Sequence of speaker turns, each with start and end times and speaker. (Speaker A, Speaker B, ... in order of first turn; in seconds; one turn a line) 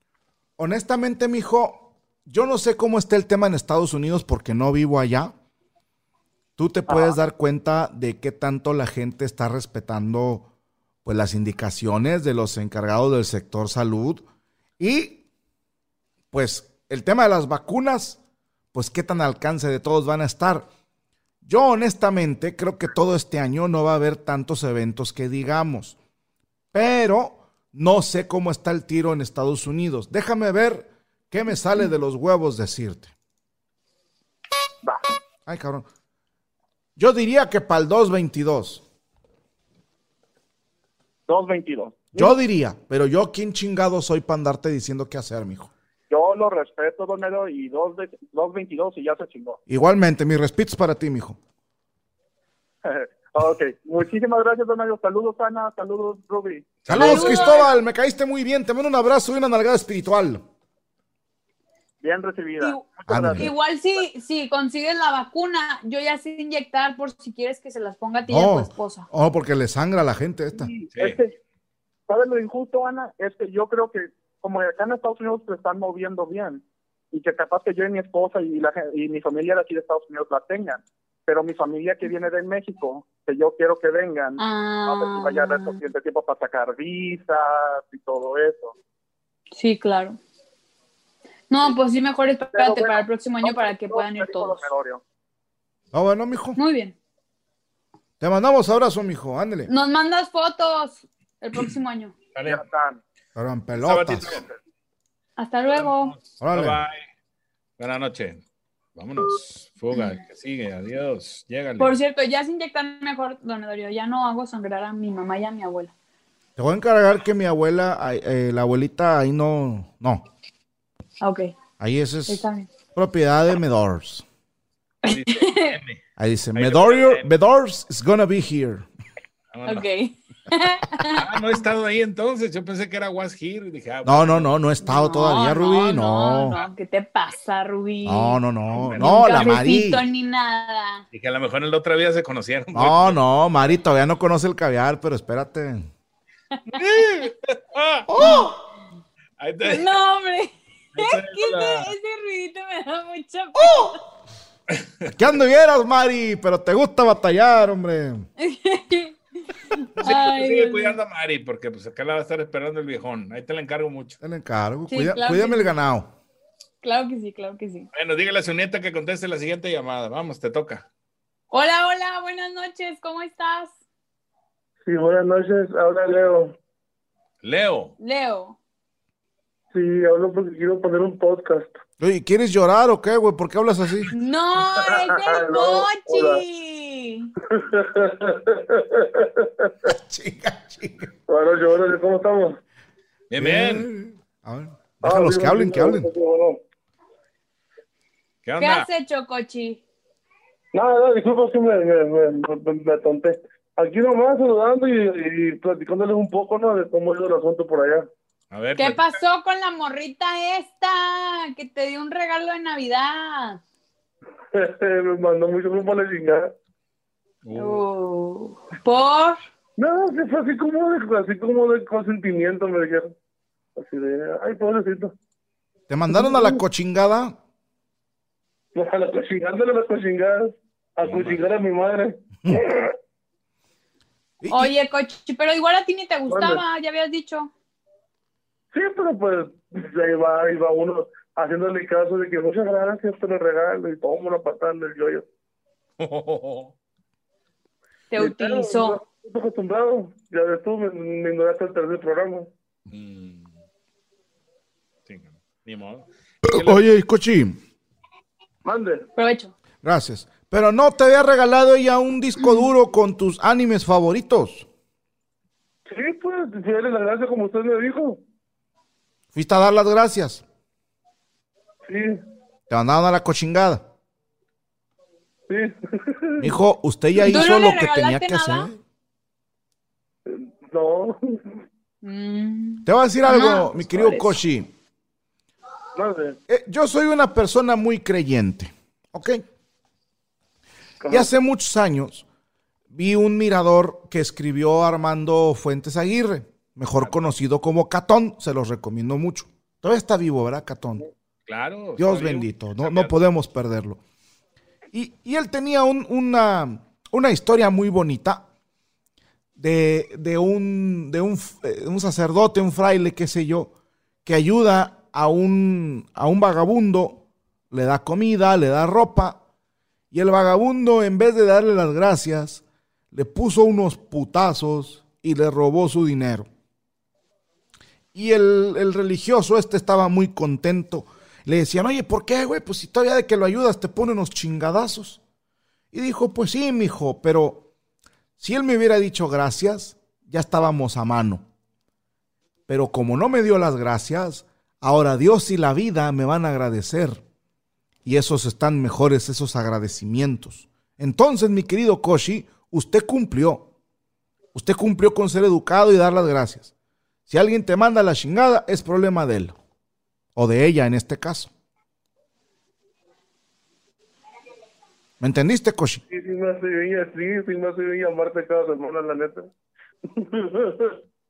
Speaker A: 0.6-5.3
Speaker A: 6.6-10.5
Speaker B: 6.9-7.2
Speaker A: 11.1-14.2
Speaker A: 14.8-15.2
Speaker A: 16.3-18.2
Speaker A: 18.7-20.7
Speaker A: 21.4-26.0
Speaker A: 26.7-33.1
Speaker A: 35.5-35.9
Speaker A: 37.0-38.8
Speaker B: 41.3-42.4
Speaker A: 42.1-45.7
Speaker B: 46.1-49.6
Speaker A: 49.7-51.4
Speaker B: 52.9-57.0
Speaker C: 56.9-57.3
Speaker A: 56.9-60.4
Speaker D: 57.0-57.7
Speaker B: 62.0-63.5
Speaker A: 63.1-63.5
Speaker D: 63.4-69.1
Speaker A: 68.3-70.7
Speaker B: 70.5-71.4
Speaker B: 72.1-88.8
Speaker D: 84.4-85.8
Speaker D: 89.5-90.2
Speaker D: 91.5-94.6
Speaker B: 92.5-95.0
Speaker A: 95.9-96.6
Speaker D: 96.6-97.0
Speaker A: 98.2-99.7
Speaker D: 99.7-102.1
Speaker C: 102.3-102.6
Speaker B: 102.5-103.0
Speaker A: 103.4-104.3
Speaker C: 103.8-104.5
Speaker D: 105.4-106.1
Speaker C: 105.8-107.0
Speaker A: 106.4-106.8
Speaker C: 107.8-108.4
Speaker C: 109.0-111.9
Speaker D: 111.8-115.9
Speaker A: 116.6-120.3
Speaker D: 121.2-121.5
Speaker A: 121.8-122.4
Speaker D: 122.3-122.7
Speaker A: 123.0-124.2
Speaker D: 125.0-125.8
Speaker C: 125.1-126.0
Speaker A: 126.2-128.9
Speaker C: 126.5-127.3
Speaker C: 129.5-129.9
Speaker D: 129.7-131.2
Speaker C: 131.1-134.5
Speaker A: 134.1-136.6
Speaker D: 134.8-138.4
Speaker A: 138.1-140.0
Speaker C: 138.8-139.0
Speaker D: 138.9-141.0
Speaker C: 141.1-143.2
Speaker A: 142.7-145.9
Speaker C: 146.8-148.1
Speaker A: 148.1-148.6
Speaker C: 149.4-149.9
Speaker D: 149.6-154.0
Speaker C: 150.9-151.9
Speaker A: 153.6-153.9
Speaker C: 154.7-155.1
Speaker A: 155.1-158.3
Speaker D: 158.4-159.2
Speaker D: 159.7-161.0
Speaker C: 160.0-164.2
Speaker A: 164.2-166.1
Speaker D: 164.9-165.7
Speaker D: 166.8-167.9
Speaker C: 167.9-170.9
Speaker D: 171.5-173.7
Speaker E: 174.8-176.6
Speaker C: 177.4-177.9
Speaker D: 178.0-178.6
Speaker E: 179.7-181.8
Speaker A: 182.0-184.1
Speaker D: 184.1-187.3
Speaker E: 184.8-186.4
Speaker E: 187.5-189.9
Speaker A: 189.8-191.1
Speaker E: 191.3-192.6
Speaker C: 193.3-193.9
Speaker A: 193.4-196.1
Speaker E: 195.0-196.6
Speaker C: 198.4-198.9
Speaker D: 198.6-199.8
Speaker E: 200.7-208.1
Speaker C: 208.5-209.1
Speaker D: 208.8-213.6
Speaker E: 214.5-216.5
Speaker C: 217.4-217.8
Speaker D: 217.6-219.4
Speaker E: 219.8-223.1
Speaker E: 223.8-225.1
Speaker A: 225.9-227.4
Speaker E: 226.1-226.6
Speaker E: 228.8-232.9
Speaker C: 231.1-231.4
Speaker A: 234.4-234.7
Speaker D: 234.5-237.5
Speaker E: 236.3-236.6
Speaker E: 238.7-245.2
Speaker C: 246.0-246.7
Speaker D: 248.1-249.0
Speaker E: 248.2-252.5
Speaker C: 252.9-253.6
Speaker C: 255.1-256.9
Speaker A: 256.4-257.6
Speaker E: 258.6-259.1
Speaker D: 259.2-259.5
Speaker A: 259.8-264.7
Speaker E: 265.9-268.2
Speaker A: 269.3-270.4
Speaker E: 271.8-272.2
Speaker A: 272.7-273.9
Speaker E: 275.5-276.5
Speaker A: 276.4-278.8
Speaker D: 277.2-278.7
Speaker E: 280.3-281.6
Speaker D: 282.0-284.4
Speaker A: 282.9-284.7
Speaker E: 285.9-286.4
Speaker A: 286.5-289.4
Speaker E: 291.0-291.3
Speaker A: 291.1-292.2
Speaker A: 292.9-301.0
Speaker C: 297.0-297.3
Speaker C: 301.5-303.2
Speaker A: 302.0-304.0
Speaker A: 304.9-308.5
Speaker A: 309.6-313.7
Speaker A: 314.2-319.4
Speaker A: 320.1-326.5
Speaker A: 328.1-335.2
Speaker A: 335.9-337.7
Speaker A: 338.4-341.4
Speaker A: 342.7-347.2
Speaker A: 348.1-353.7
Speaker A: 354.5-356.7
Speaker A: 357.3-359.6
Speaker A: 360.4-361.5
Speaker A: 365.2-366.0
Speaker E: 366.1-369.5
Speaker E: 370.1-371.0